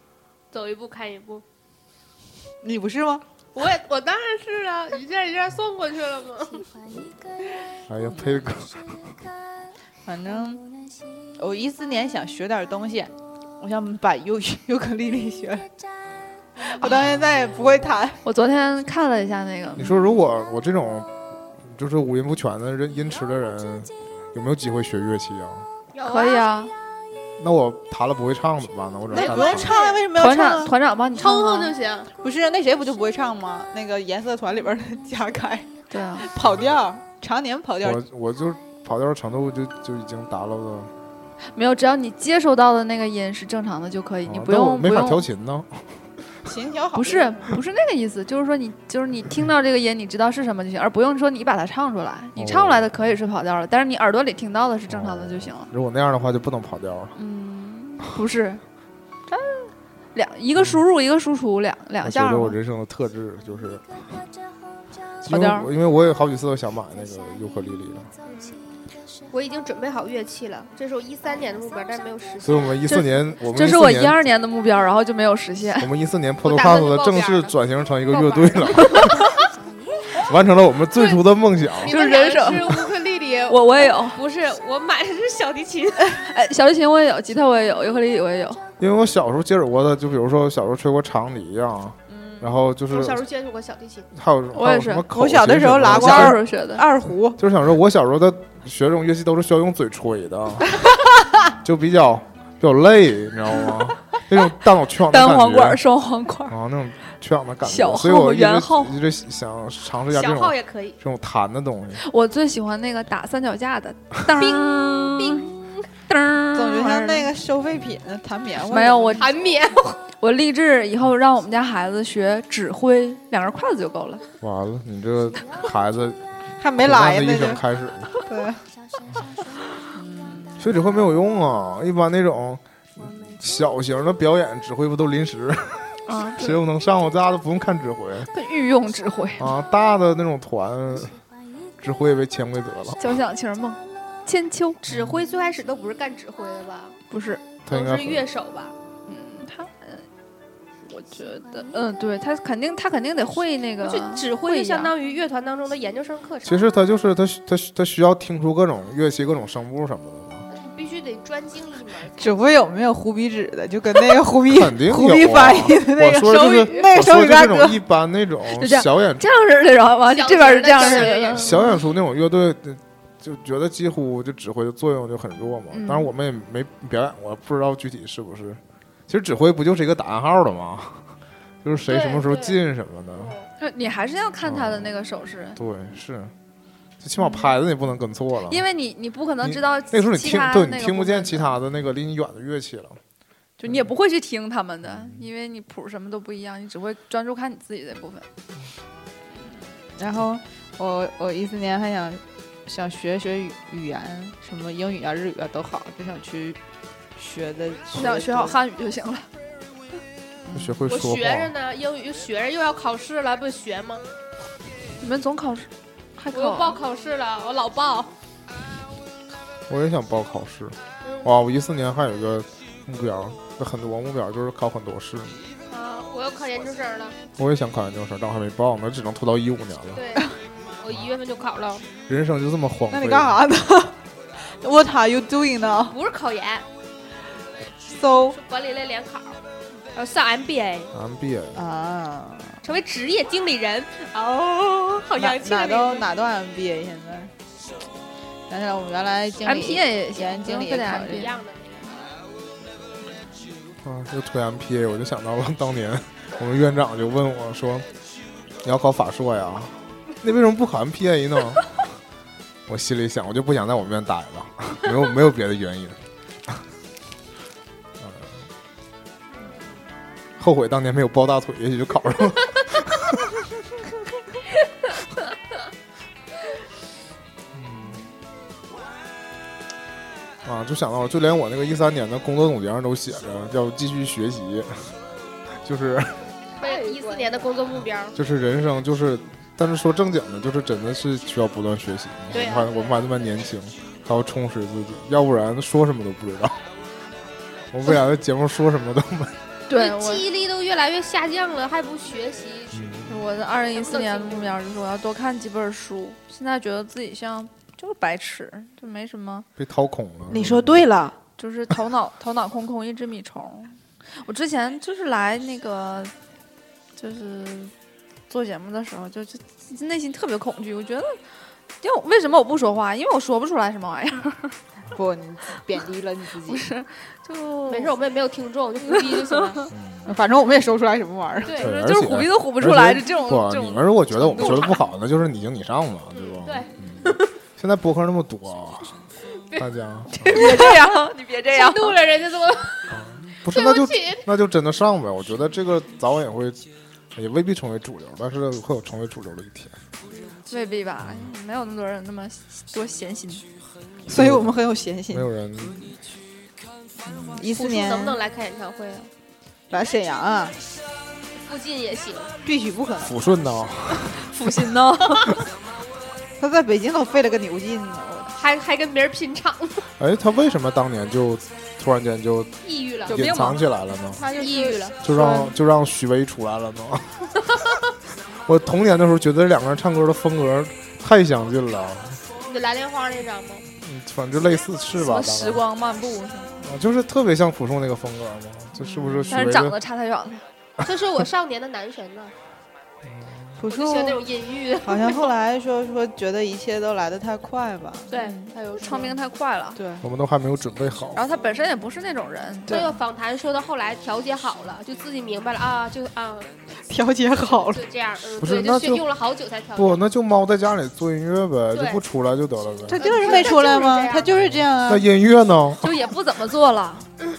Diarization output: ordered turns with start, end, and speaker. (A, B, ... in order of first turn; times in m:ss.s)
0:00.5-0:01.4 A
0:02.6-0:03.2 B
0:03.6-0:06.7 A
0:07.9-0:09.1 C
0:08.1-0:08.5 B
0:10.0-0:10.6 B
0:11.4-0:15.7 B
0:16.6-0:18.2 B
0:18.2-0:20.0 D
0:19.8-0:21.1 C
0:21.6-0:25.7 C
0:25.9-0:26.5 A
0:26.0-0:26.7 D
0:27.4-0:29.8 C
0:29.1-0:30.0 A
0:29.1-0:30.8 B
0:30.2-0:31.7 D
0:31.2-0:32.1 A
0:32.2-0:38.0 B
0:35.9-0:36.3 D
0:36.4-0:36.7 C
0:37.8-0:40.9 C
0:41.5-0:45.2 D
0:44.3-0:46.5 C
0:46.4-0:47.4 B
0:46.9-0:55.7 D
0:52.4-0:53.1 C
0:54.9-0:57.2 C
0:57.2-0:58.6 D
0:59.3-1:02.6 D
1:02.0-1:04.2 C
1:05.2-1:08.1 C
1:05.3-1:05.7 D
1:08.2-1:08.6 A
1:09.3-1:12.8 A
1:12.4-1:14.3 C
1:12.9-1:15.9 D
1:15.8-1:19.2 C
1:16.4-1:17.6 A
1:18.1-1:19.3 A
1:20.2-1:22.0 C
1:21.0-1:21.2 A
1:21.7-1:26.2 A
1:21.9-1:22.8 D
1:23.5-1:24.2 D
1:26.2-1:28.6 D
1:28.8-1:33.2 C
1:32.1-1:32.5 B
1:32.9-1:34.1 A
1:34.1-1:36.4 C
1:34.5-1:35.1 D
1:35.1-1:37.4 B
1:35.8-1:36.8 D
1:37.4-1:40.8 C
1:41.6-1:45.8 C
1:45.0-1:46.6 D
1:46.5-1:52.0 C
1:47.6-1:48.9 D
1:50.1-1:51.0 A
1:52.0-1:55.5 D
1:54.4-1:55.8 A
1:56.1-1:57.3 D
1:56.5-1:59.2 B
1:58.7-1:59.3 D
1:59.2-2:00.0 A
2:00.1-2:04.2 D
2:04.4-2:06.2 C
2:06.6-2:07.6 B
2:06.8-2:08.1 C
2:08.2-2:08.6 B
2:09.9-2:10.6 B
2:10.6-2:18.3 C
2:16.1-2:16.6 D
2:18.3-2:19.5 D
2:19.4-2:21.2 C
2:21.8-2:23.0 C
2:23.0-2:24.8 D
2:24.8-2:27.0 A
2:24.9-2:25.2 C
2:27.1-2:27.4 D
2:27.7-2:28.3 C
2:27.7-2:28.8 A
2:29.1-2:30.1 D
2:30.9-2:34.9 D
2:33.8-2:36.6 A
2:36.4-2:40.5 C
2:40.5-2:42.3 A
2:42.2-2:47.8 B
2:44.5-2:49.2 C
2:48.5-2:51.7 D
2:50.1-2:51.6 A
2:51.3-3:03.4 C
2:55.7-2:56.1 D
3:01.9-3:02.6 A
3:03.2-3:03.5 A
3:03.6-3:05.6 D
3:04.4-3:04.9 C
3:05.6-3:06.3 C
3:07.0-3:08.6 C
3:08.5-3:11.6 D
3:09.4-3:13.0 C
3:13.6-3:18.3 D
3:14.9-3:15.2 C
3:19.9-3:26.6 B
3:27.2-3:28.6 B
3:28.0-3:29.3 D
3:30.5-3:30.8 B
3:30.5-3:31.5 C
3:30.9-3:34.0 A
3:35.0-3:36.8 D
3:36.3-3:38.1 A
3:39.7-3:45.4 C
3:41.0-3:41.3 A
3:45.7-3:47.2 A
3:47.4-3:50.0 C
3:49.9-3:51.9 A
3:52.1-3:53.4 C
3:52.9-3:56.0 B
3:55.7-3:56.7 A
3:57.8-3:58.4 B
3:58.3-3:59.4 A
3:59.9-4:00.9 A
4:00.9-4:01.6 C
4:01.6-4:02.6 B
4:02.6-4:06.1 A
4:05.2-4:07.3 B
4:08.5-4:11.3 B
4:09.4-4:11.3 D
4:11.0-4:12.1 A
4:13.8-4:17.9 C
4:18.6-4:21.8 C
4:22.7-4:26.6 C
4:28.0-4:28.5 C
4:30.4-4:33.4 C
4:37.5-4:38.0 C
4:40.4-4:45.0 C
4:45.6-4:46.3 C
4:46.6-4:48.2 A
4:46.6-4:47.5 B
4:48.2-4:56.6 C
4:52.3-4:53.1 A
4:57.7-4:59.4 C
4:59.7-5:00.2 D
4:59.7-5:02.8 A
5:02.7-5:03.2 C
5:03.1-5:09.5 D
5:03.8-5:04.6 A
5:09.6-5:10.8 C
5:10.3-5:11.2 B
5:11.4-5:16.1 D
5:17.0-5:17.7 D
5:18.3-5:24.6 D
5:24.9-5:26.7 B
5:26.4-5:27.9 D
5:27.7-5:29.6 A
5:28.9-5:29.3 D
5:29.7-5:30.1 C
5:30.1-5:31.6 B
5:31.4-5:31.7 A
5:31.6-5:39.0 C
5:31.6-5:34.8 D
5:34.4-5:34.7 A
5:36.1-5:37.3 A
5:39.4-5:39.7 A
5:39.6-5:40.5 C
5:40.2-5:42.0 D
5:40.3-5:40.7 A
5:40.3-5:40.8 B
5:41.5-5:43.0 A
5:42.9-5:46.6 C
5:43.5-5:44.3 A
5:47.2-5:49.8 C
5:50.5-5:53.5 D
5:51.0-5:51.3 C
5:54.1-5:56.0 B
5:54.1-5:54.6 C
5:55.1-5:55.8 C
5:57.1-5:58.2 B
5:57.5-5:59.1 A
5:59.7-6:00.6 B
6:01.4-6:02.3 A
6:02.4-6:03.2 B
6:03.0-6:04.3 C
6:04.1-6:05.4 D
6:06.4-6:08.3 B
6:08.3-6:09.9 A
6:10.0-6:12.5 C
6:12.6-6:13.2 A
6:13.1-6:14.2 C
6:13.1-6:13.6 D
6:14.2-6:15.0 A
6:14.3-6:15.4 D
6:15.0-6:17.4 C
6:18.3-6:22.2 C
6:22.4-6:23.7 A
6:23.8-6:25.6 C
6:25.0-6:26.6 D
6:26.6-6:29.8 C
6:28.8-6:29.5 B
6:29.3-6:30.4 D
6:30.8-6:32.3 A
6:33.1-6:33.6 C
6:33.6-6:34.2 B
6:33.7-6:35.4 A
6:34.8-6:38.9 B
6:38.1-6:39.1 A
6:38.8-6:39.8 D
6:39.8-6:40.0 B
6:40.0-6:41.2 C
6:41.2-6:42.8 D
6:42.7-6:43.0 B
6:42.7-6:46.6 A
6:46.8-6:47.9 B
6:47.4-6:50.0 A
6:48.4-6:49.0 C
6:49.8-6:53.0 C
6:51.7-6:52.0 A
6:52.9-6:55.1 B
6:52.9-6:54.4 A
6:54.4-6:55.9 C
6:55.8-6:57.1 D